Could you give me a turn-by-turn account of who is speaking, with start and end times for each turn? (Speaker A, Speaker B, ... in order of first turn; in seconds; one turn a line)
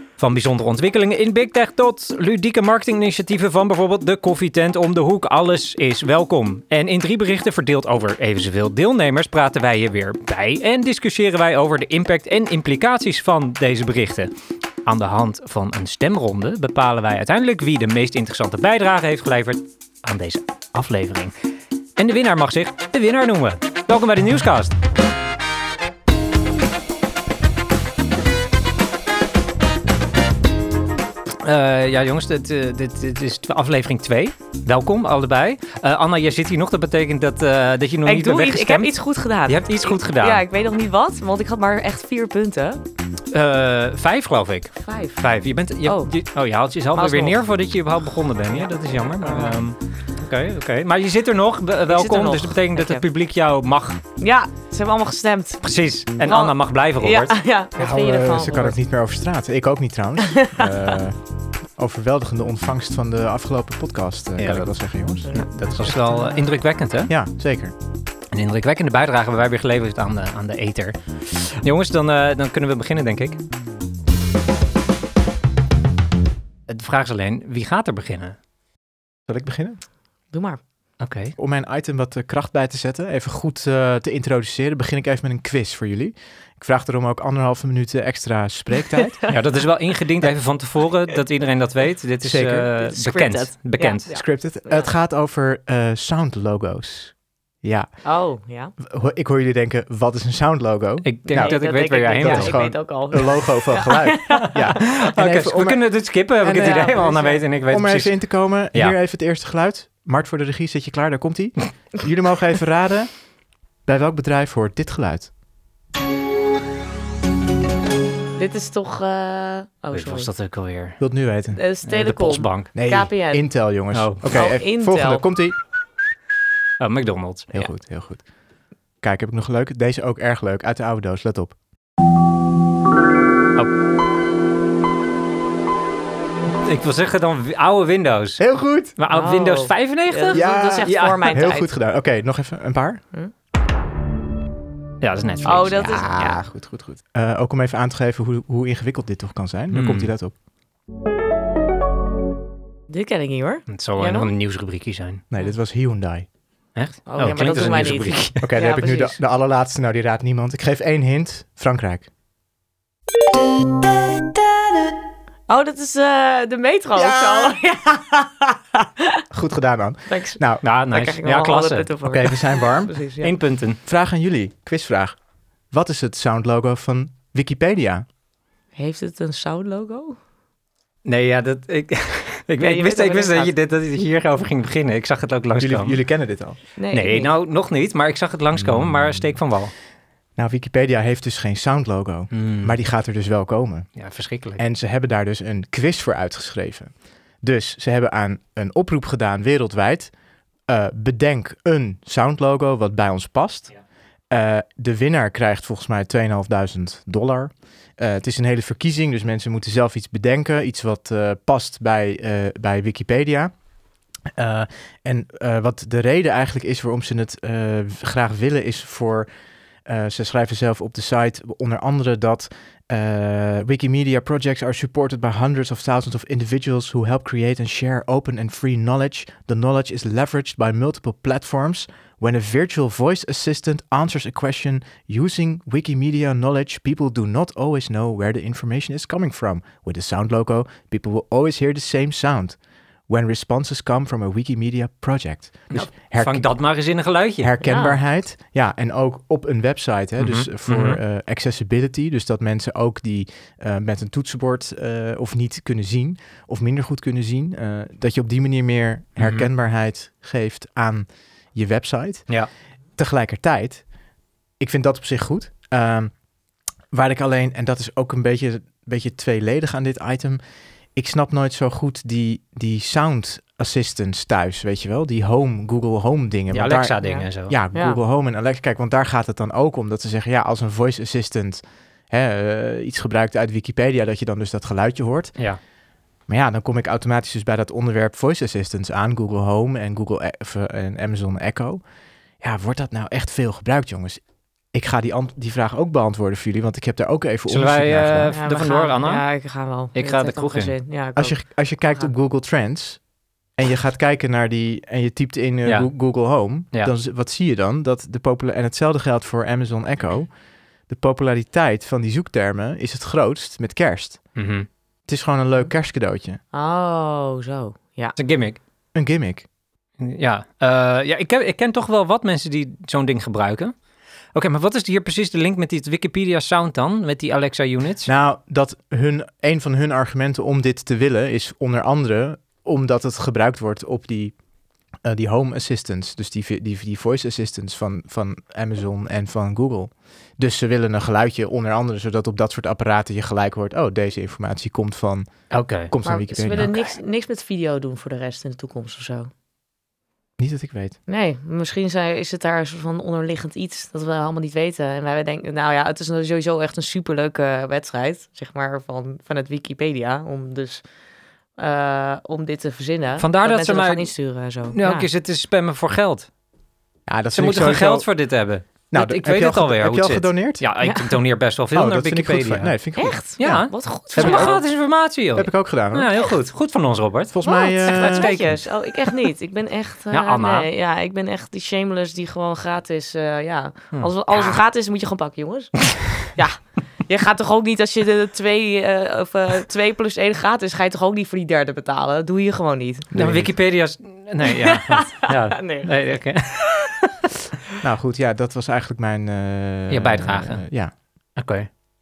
Speaker A: 0.2-14.3
Speaker A: 14.8-21.3
Speaker A: 22.0-24.8
Speaker A: 31.4-38.9
Speaker B: 38.0-42.8
Speaker A: 39.5-40.4
Speaker A: 43.3-54.0
Speaker B: 44.8-45.2
Speaker B: 45.8-46.1
Speaker B: 46.9-47.4
Speaker B: 49.2-49.6
Speaker B: 51.9-53.0
Speaker B: 54.2-55.7
Speaker A: 55.6-57.4
Speaker B: 56.2-58.8
Speaker C: 57.8-61.2
Speaker B: 60.2-61.0
Speaker C: 61.8-66.5
Speaker A: 64.4-64.7
Speaker A: 65.3-67.1
Speaker C: 67.1-67.7
Speaker A: 68.3-73.4
Speaker A: 76.7-78.4
Speaker C: 79.3-79.8
Speaker B: 80.3-80.6
Speaker A: 81.0-81.4
Speaker C: 81.4-89.3
Speaker B: 89.0-89.4
Speaker A: 89.3-94.1
Speaker C: 92.2-92.7
Speaker B: 92.7-94.9
Speaker C: 94.1-97.9
Speaker B: 98.0-98.7
Speaker C: 98.8-105.8
Speaker A: 101.0-102.6
Speaker B: 101.3-104.6
Speaker A: 104.3-108.2
Speaker B: 106.4-107.4
Speaker C: 106.5-107.0
Speaker C: 107.7-113.2
Speaker C: 113.8-115.3
Speaker B: 118.4-120.3
Speaker A: 119.9-121.0
Speaker C: 121.0-121.6
Speaker B: 121.5-123.5
Speaker A: 121.8-122.7
Speaker C: 122.7-125.5
Speaker A: 123.9-124.3
Speaker B: 124.3-125.2
Speaker A: 126.8-127.5
Speaker C: 127.5-128.3
Speaker C: 129.0-131.6
Speaker A: 136.6-138.4
Speaker C: 138.4-139.0
Speaker A: 139.0-141.3
Speaker B: 139.1-141.7
Speaker C: 140.3-143.0
Speaker A: 145.0-146.1
Speaker B: 145.4-146.4
Speaker C: 145.8-150.3
Speaker A: 149.7-150.1
Speaker B: 152.9-154.3
Speaker A: 153.7-155.2
Speaker C: 155.3-156.2
Speaker A: 156.8-158.5
Speaker B: 157.1-159.2
Speaker C: 157.6-162.1
Speaker B: 165.5-169.2
Speaker C: 166.9-167.6
Speaker C: 169.3-170.6
Speaker B: 170.1-173.3
Speaker A: 170.6-171.9
Speaker C: 172.0-172.9
Speaker A: 173.2-173.8
Speaker C: 173.8-175.2
Speaker C: 175.7-178.1
Speaker B: 178.8-180.2
Speaker A: 181.1-186.0
Speaker B: 182.6-183.5
Speaker C: 185.6-186.6
Speaker B: 186.8-187.3
Speaker A: 186.9-189.7
Speaker C: 188.6-189.3
Speaker C: 190.3-194.0
Speaker A: 192.3-192.8
Speaker A: 194.0-194.6
Speaker C: 194.6-200.1
Speaker C: 200.7-203.8
Speaker C: 204.3-213.5
Speaker C: 214.3-219.3
Speaker C: 219.8-246.5
Speaker A: 245.7-247.5
Speaker C: 247.4-262.3
Speaker B: 247.6-248.0
Speaker A: 250.2-251.0
Speaker A: 259.2-259.5
Speaker C: 263.0-263.8
Speaker C: 264.6-266.1
Speaker C: 266.9-270.4
Speaker C: 270.9-285.4
Speaker A: 276.5-277.5
Speaker B: 277.0-278.0
Speaker C: 286.3-291.8
Speaker C: 292.4-294.2
Speaker C: 294.7-298.4
Speaker A: 297.5-299.2
Speaker B: 298.3-302.1
Speaker A: 299.9-300.7
Speaker C: 301.1-310.3
Speaker A: 305.6-306.1
Speaker C: 310.9-314.4
Speaker A: 314.3-314.7
Speaker C: 315.1-316.4
Speaker B: 316.5-318.2
Speaker A: 318.2-318.6
Speaker C: 318.9-319.4
Speaker A: 320.0-323.7
Speaker A: 324.3-328.1
Speaker C: 328.0-334.3
Speaker C: 335.0-346.7
Speaker A: 345.5-345.9
Speaker B: 346.0-349.3
Speaker C: 350.4-350.9
Speaker B: 351.1-360.8
Speaker B: 361.6-365.1
Speaker A: 363.2-364.1
Speaker A: 364.7-366.3
Speaker C: 367.1-368.1
Speaker A: 367.3-372.7
Speaker C: 368.9-370.6
Speaker B: 370.8-371.2
Speaker C: 371.7-374.7
Speaker B: 372.9-374.6
Speaker A: 373.4-378.6
Speaker C: 375.3-376.1
Speaker C: 377.3-378.5
Speaker B: 377.4-393.1
Speaker A: 380.1-380.7
Speaker A: 383.9-384.6
Speaker C: 393.1-393.5
Speaker A: 393.1-397.1
Speaker B: 394.4-396.5
Speaker C: 397.8-400.9
Speaker A: 399.9-400.7
Speaker A: 401.3-401.7